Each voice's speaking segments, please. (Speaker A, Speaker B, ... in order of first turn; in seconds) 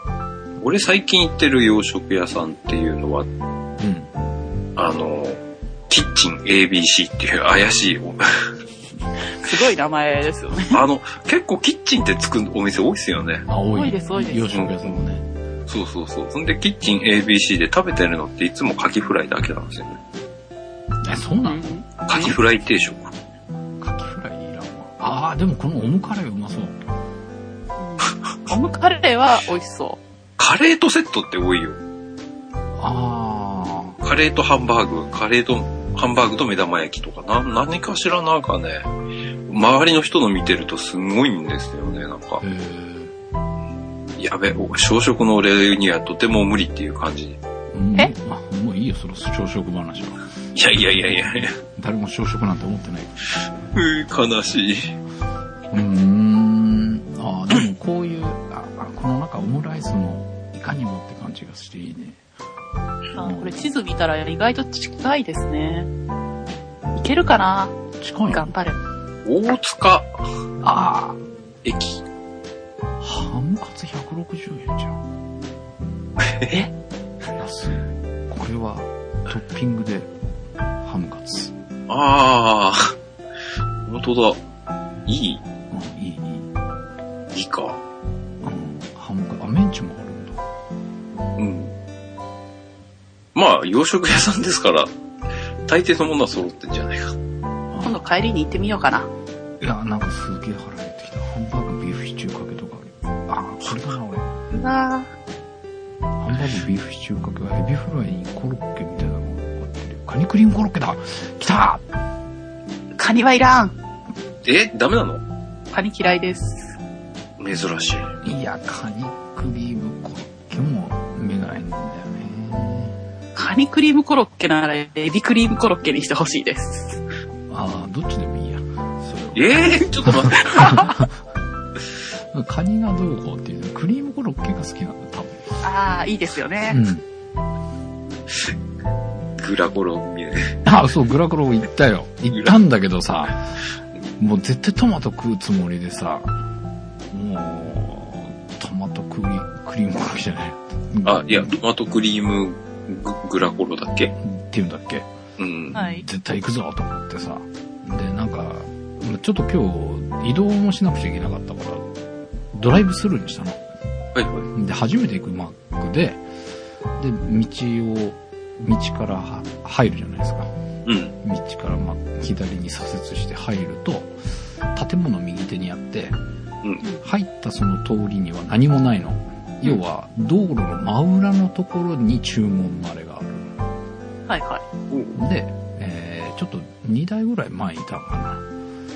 Speaker A: 0.6-3.3, 4.8-8.5, 10.7-13.5, 14.5-15.0, 15.7-20.0, 22.1-23.1, 30.4-31.8, 34.0-38.9, 39.5-42.4, 44.2-47.4, 50.5-51.6, 53.7-55.0, 69.2-70.2, 71.6-72.0, 76.2-76.5, 81.9-83.0, 83.9-84.4, 85.1-85.4, 87.3-87.8, 91.4-91.7, 93.3-94.9, 95.7-97.2, 114.4-115.2, 117.4-118.1, 129.3-130.8, 139.4-140.6, 151.0-154.1, 155.4-155.8, 164.2-164.5, 170.8-171.1, 184.9-185.2
Speaker B: 3.8-4.1, 13.5-15.2, 21.0-21.8, 23.8-26.8, 32.8-34.0, 42.4-43.1, 47.7-50.2, 51.1-53.2, 55.7-62.2, 63.2-63.5, 68.0-68.5, 70.6-71.2, 73.0-75.0, 77.3-80.1, 80.8-81.5, 85.7-86.5, 88.4-90.4, 97.7-98.0, 99.6-104.3, 106.2-111.8, 118.2-123.0, 127.5-131.1, 132.3-135.6, 136.7-137.0, 140.7-143.4, 144.2-146.3, 147.1-151.5, 154.2-155.1, 155.7-161.8, 162.5-163.6, 164.5-166.2, 167.0-170.5, 171.2-174.1, 174.7-176.2, 177.0-183.6, 185.2-188.4
Speaker C: 9.3-10.8, 13.7-14.6, 21.4-22.4, 27.8-30.0, 63.1-65.9, 67.0-67.7, 68.3-68.8, 97.8-99.1, 104.5-105.1, 113.0-113.8, 115.7-116.8, 123.3-127.0, 130.4-131.0, 135.6-136.8, 155.8-156.0, 184.3-184.6